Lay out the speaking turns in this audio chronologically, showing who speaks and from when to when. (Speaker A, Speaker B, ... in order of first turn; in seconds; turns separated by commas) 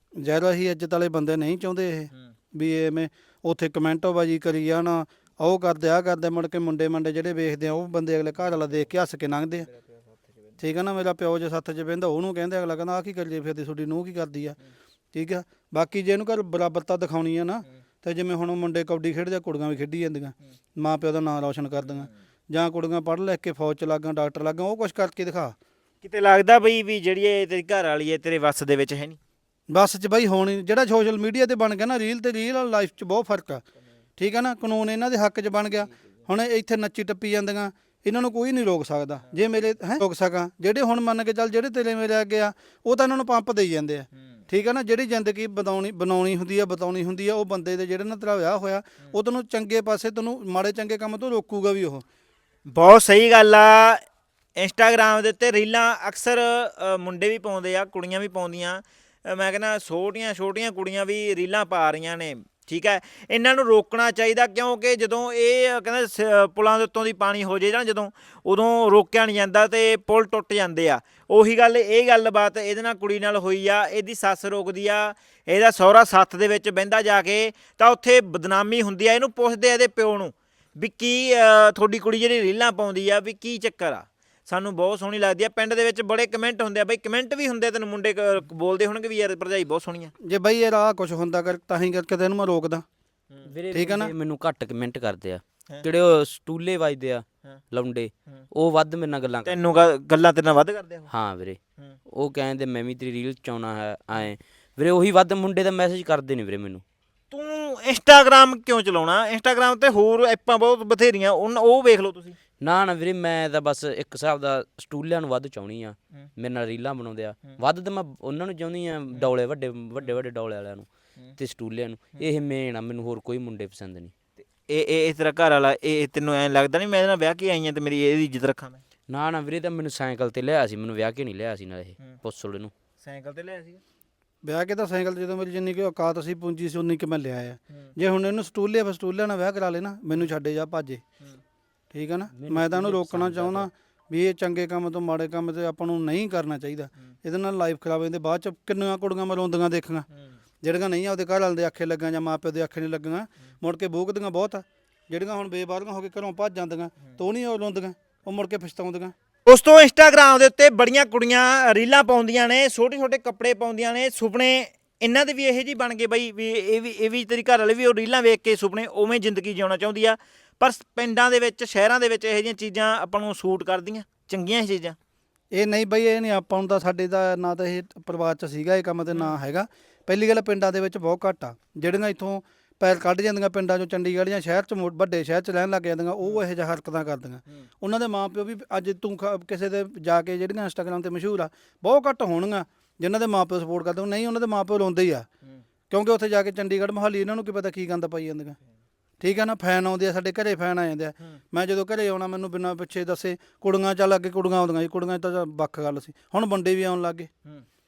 Speaker A: 0.2-9.7, Speaker A: 10.6-14.6, Speaker A: 15.1-25.5, Speaker B: 21.8-22.1, Speaker B: 26.0-29.2, Speaker A: 29.7-33.6, Speaker A: 34.2-52.0, Speaker B: 52.7-54.0, Speaker B: 54.6-90.1, Speaker A: 90.2-92.8, Speaker C: 93.5-99.8, Speaker A: 93.7-94.1, Speaker B: 99.5-101.1, Speaker C: 101.1-101.6, Speaker C: 102.1-106.8, Speaker B: 107.3-112.3, Speaker C: 112.6-124.1, Speaker B: 124.7-128.8, Speaker C: 129.1-132.7, Speaker B: 133.0-133.8, Speaker A: 134.4-141.0, Speaker A: 141.9-150.1, Speaker C: 142.3-143.7, Speaker A: 150.6-159.1, Speaker B: 159.4-174.9, Speaker A: 175.5-195.3, Speaker A: 195.9-198.6, Speaker A: 199.2-207.3